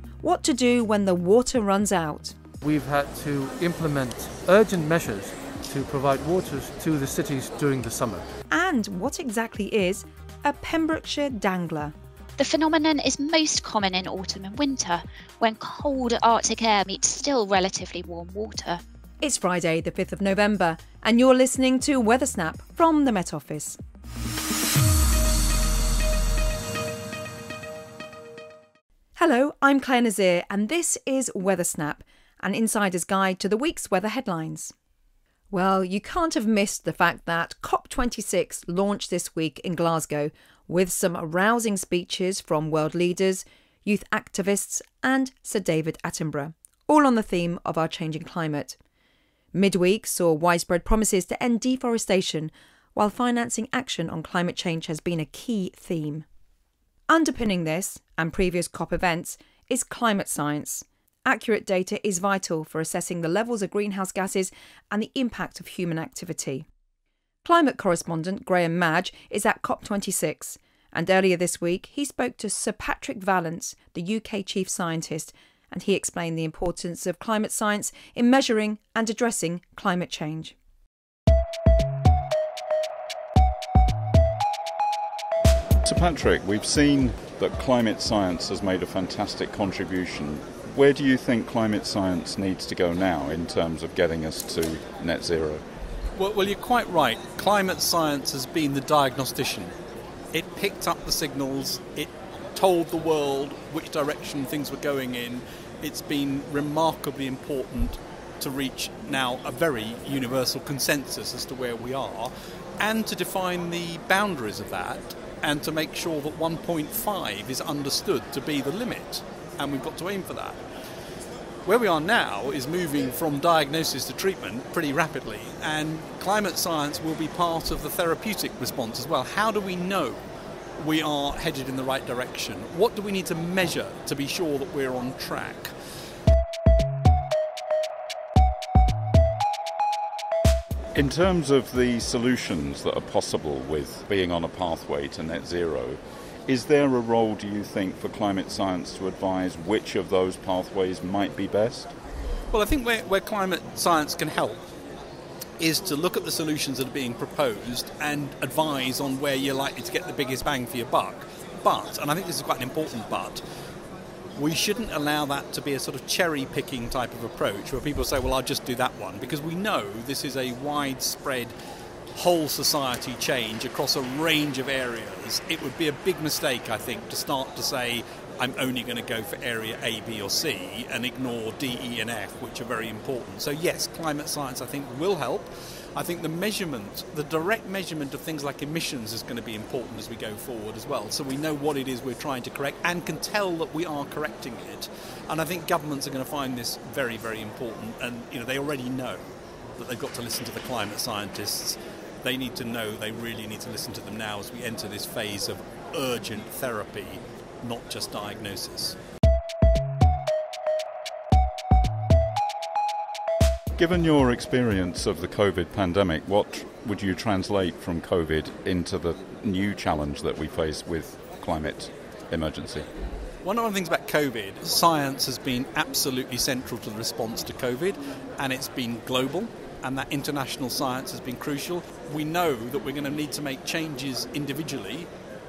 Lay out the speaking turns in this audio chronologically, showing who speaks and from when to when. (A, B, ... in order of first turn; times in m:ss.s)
0:00.2-0:02.4 A
0:02.6-0:08.2 B
0:08.5-0:11.9 A
0:12.4-0:18.8 C
0:19.2-0:23.8 A
0:29.2-0:34.7 A
0:35.5-0:48.8 A
0:49.5-0:56.2 A
0:57.1-1:06.7 A
1:07.4-1:20.6 A
1:25.8-1:35.6 D
1:36.2-1:39.8 E
1:40.3-2:00.6 E
2:01.6-2:10.2 E
2:10.8-2:15.7 E
2:21.0-2:31.9 D
2:32.5-2:34.6 E
2:35.6-2:43.4 E
2:44.4-2:51.6 E
2:52.1-3:19.2 E
3:19.8-3:29.0 E
3:33.8-3:42.9 D
3:43.4-3:55.1 E